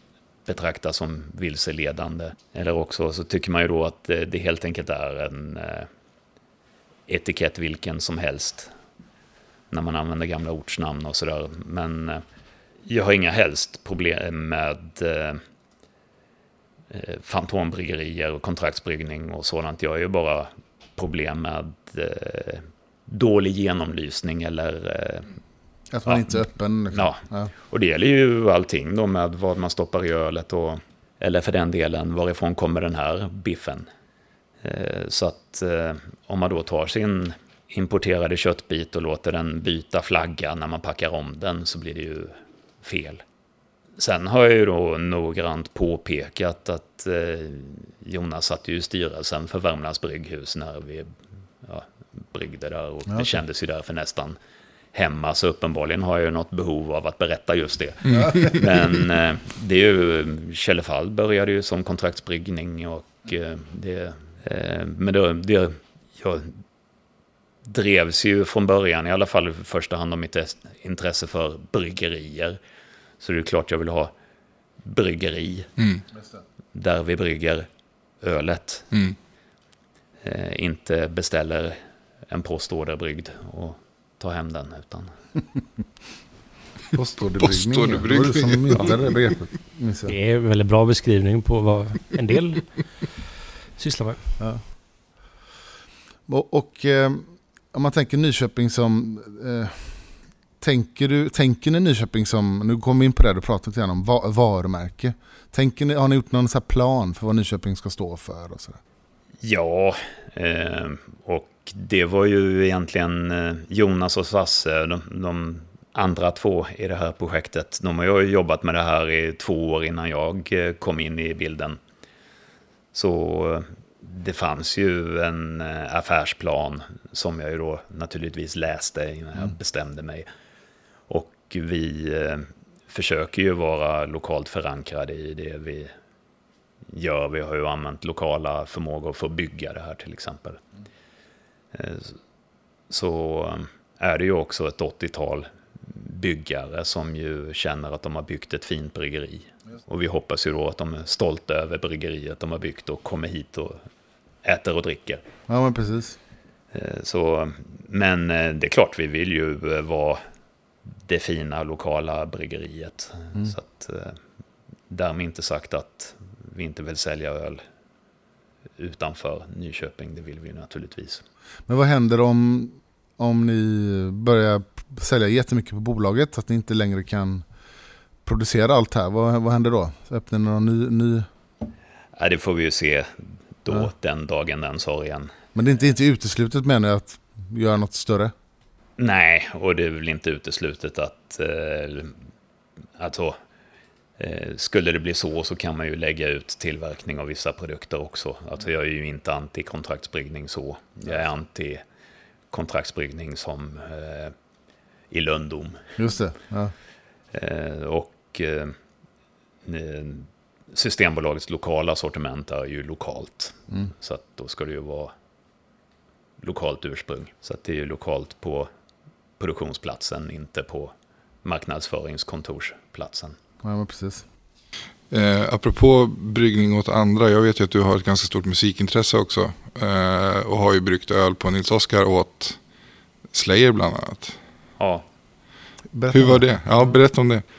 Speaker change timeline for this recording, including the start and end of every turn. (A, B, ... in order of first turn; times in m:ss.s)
0:00.5-0:05.9 A
0:07.1-0:08.7 A
0:09.7-0:12.2 A
0:12.9-0:15.4 A
0:16.9-0:25.3 A
0:25.9-0:27.5 B
0:26.9-0:33.9 A
0:34.6-0:43.2 A
0:44.0-0:54.4 A
0:54.9-1:06.6 A
0:58.0-0:58.6 C
1:07.7-1:12.6 A
1:13.2-1:14.1 A
1:14.8-1:15.7 A
1:16.7-1:17.7 A
1:18.2-1:18.9 A
1:20.2-1:25.1 A
1:26.9-1:30.1 B
1:27.4-1:28.9 C
1:30.1-1:33.2 D
1:33.8-1:34.4 D
1:34.4-1:34.7 B
1:36.3-1:48.8 B
1:49.4-2:01.8 A
2:02.9-2:10.3 A
2:11.1-2:15.9 A
2:16.9-2:20.6 A
2:21.7-2:22.2 A
2:22.9-2:33.8 A
2:34.4-2:35.2 A
2:35.5-2:36.2 B
2:36.7-2:40.2 A
2:41.0-2:44.2 A
2:44.9-2:47.6 A
2:48.8-2:51.2 A
2:51.7-2:57.5 B
2:58.2-3:01.3 B
3:02.2-3:05.3 A
3:05.6-3:08.3 B
3:09.0-3:12.2 A
3:13.0-3:13.4 A
3:14.2-3:21.8 A
3:22.5-3:24.3 A
3:25.1-3:25.8 A
3:26.0-3:26.7 B
3:27.3-3:28.8 A
3:29.6-3:35.1 A
3:36.4-3:38.7 A
3:39.4-3:40.9 A
3:41.4-3:43.4 A
3:43.6-3:44.3 B
3:45.1-3:52.6 C
3:53.3-3:54.4 C
3:54.8-3:55.0 A
3:55.9-3:56.5 B
3:56.1-3:57.4 C